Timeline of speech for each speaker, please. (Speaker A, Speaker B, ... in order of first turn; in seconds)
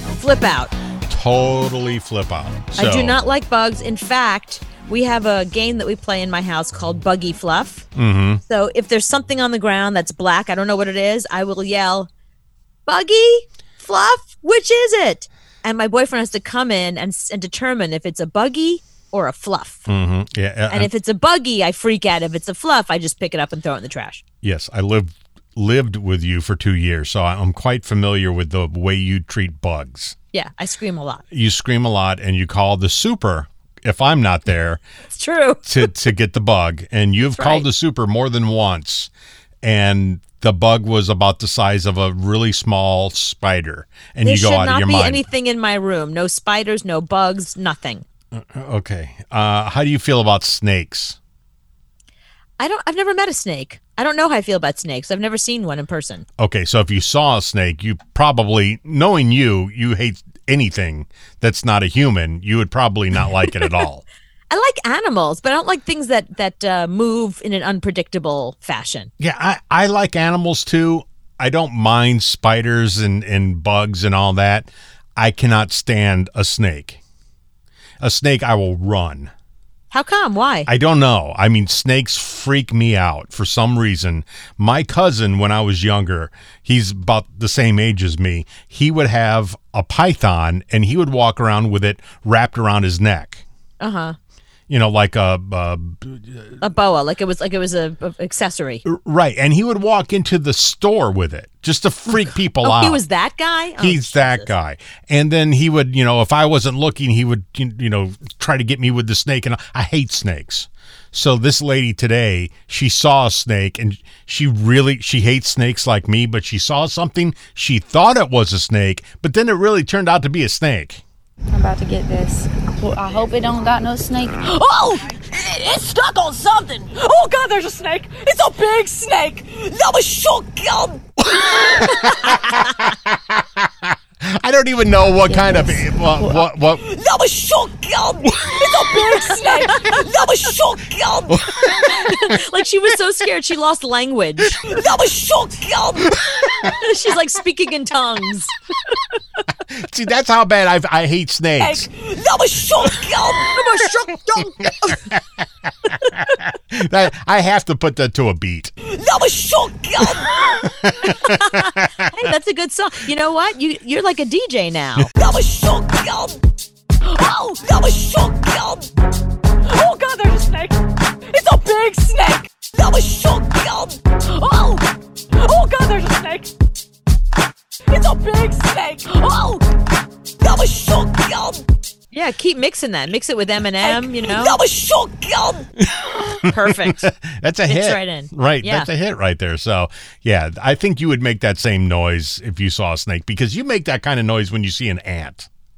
Speaker A: 0.2-0.7, 2.8-7.8, 8.4-12.1, 12.9-19.9, 20.7-24.2, 30.3-31.2, 35.1-35.9, 37.3-37.7, 44.2-48.0, 52.6-56.2, 64.5-69.1, 79.9-80.7, 93.8-94.2, 96.6-98.8, 102.6-104.5, 139.6-140.0, 141.6-144.7, 146.6-148.5, 153.4-154.9, 161.0-165.1, 182.1-184.6, 186.4-187.1, 187.7-188.9
Speaker B: 1.1-3.2, 7.9-8.4, 19.9-20.9, 24.4-30.1, 31.3-34.8, 35.6-39.1, 39.6-45.2, 48.3-51.2, 56.4-64.0, 69.2-77.0, 78.0-79.3, 80.7-93.4, 94.7-96.6, 98.8-103.0, 103.8-121.0, 131.3-136.9, 138.2-138.9, 141.3-142.4, 146.0-146.7, 149.7-151.9, 154.7-155.2, 155.8-158.7, 160.0-161.9, 185.8-195.5
Speaker C: 121.5-124.5, 135.2-136.4
Speaker D: 124.4-131.2, 136.9-141.3, 144.8-146.0, 151.8-153.6, 158.9-160.4, 165.2-166.4, 167.0-168.9, 169.6-176.5, 177.9-179.7, 180.4-181.6, 184.5-185.7